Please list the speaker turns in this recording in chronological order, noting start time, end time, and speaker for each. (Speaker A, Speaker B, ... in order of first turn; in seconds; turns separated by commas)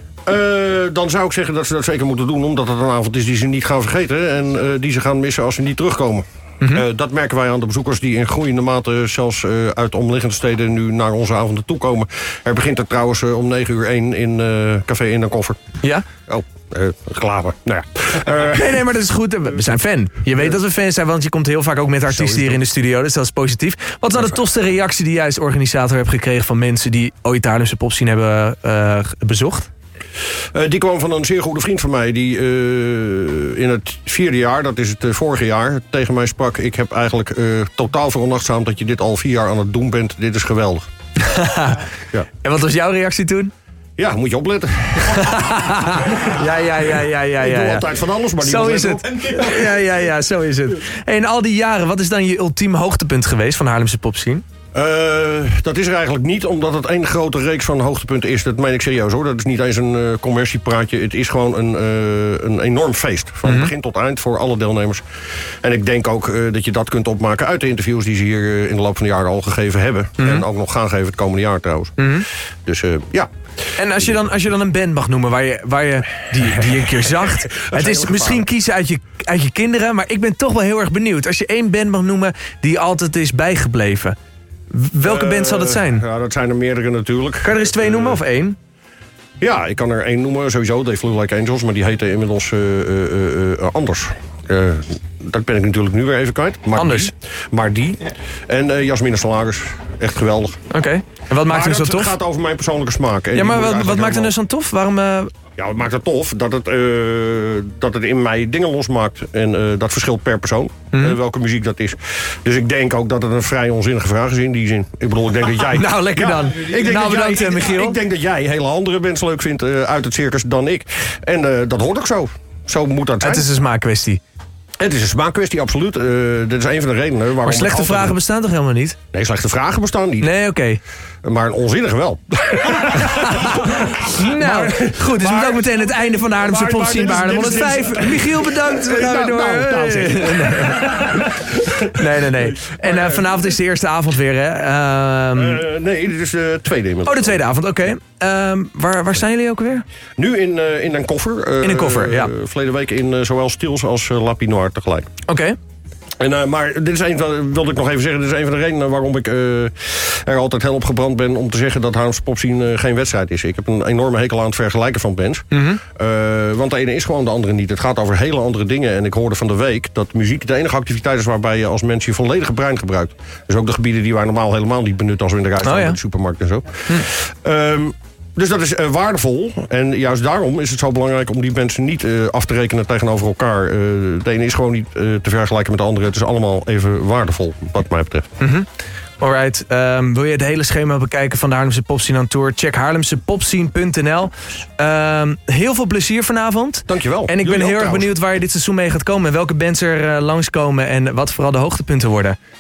Speaker A: 0.2-15.6, Speaker A: 16.2-18.7, Speaker B: 18.4-29.7, Speaker A: 30.5-40.8, Speaker B: 41.2-41.8, Speaker B: 42.4-43.5, Speaker A: 44.0-46.3, Speaker B: 45.1-47.9, Speaker A: 47.4-49.4, Speaker B: 48.4-54.4, Speaker A: 54.7-65.0, Speaker A: 65.6-72.1, Speaker B: 70.2-70.4, Speaker B: 72.0-72.2, Speaker A: 72.7-73.3, Speaker B: 73.8-84.2, Speaker A: 77.5-78.5, Speaker B: 84.7-86.0, Speaker A: 85.0-88.2, Speaker B: 87.4-88.5, Speaker A: 89.4-100.6, Speaker B: 96.7-97.1, Speaker B: 100.7-102.2, Speaker A: 101.5-104.3, Speaker B: 103.3-105.3, Speaker A: 105.6-123.5, Speaker B: 110.9-111.2, Speaker B: 115.6-118.0, Speaker B: 123.2-124.2, Speaker A: 124.8-128.2, Speaker B: 127.4-129.0, Speaker A: 129.1-130.3, Speaker B: 130.2-130.8, Speaker A: 131.2-143.3, Speaker B: 133.0-145.6, Speaker A: 145.3-147.4, Speaker B: 147.1-149.8, Speaker A: 150.2-155.1, Speaker B: 151.6-152.3, Speaker B: 155.3-155.6, Speaker A: 156.2-188.2, Speaker B: 165.5-165.8, Speaker B: 175.6-176.0, Speaker B: 188.4-188.7, Speaker B: 189.2-202.4, Speaker A: 196.9-198.1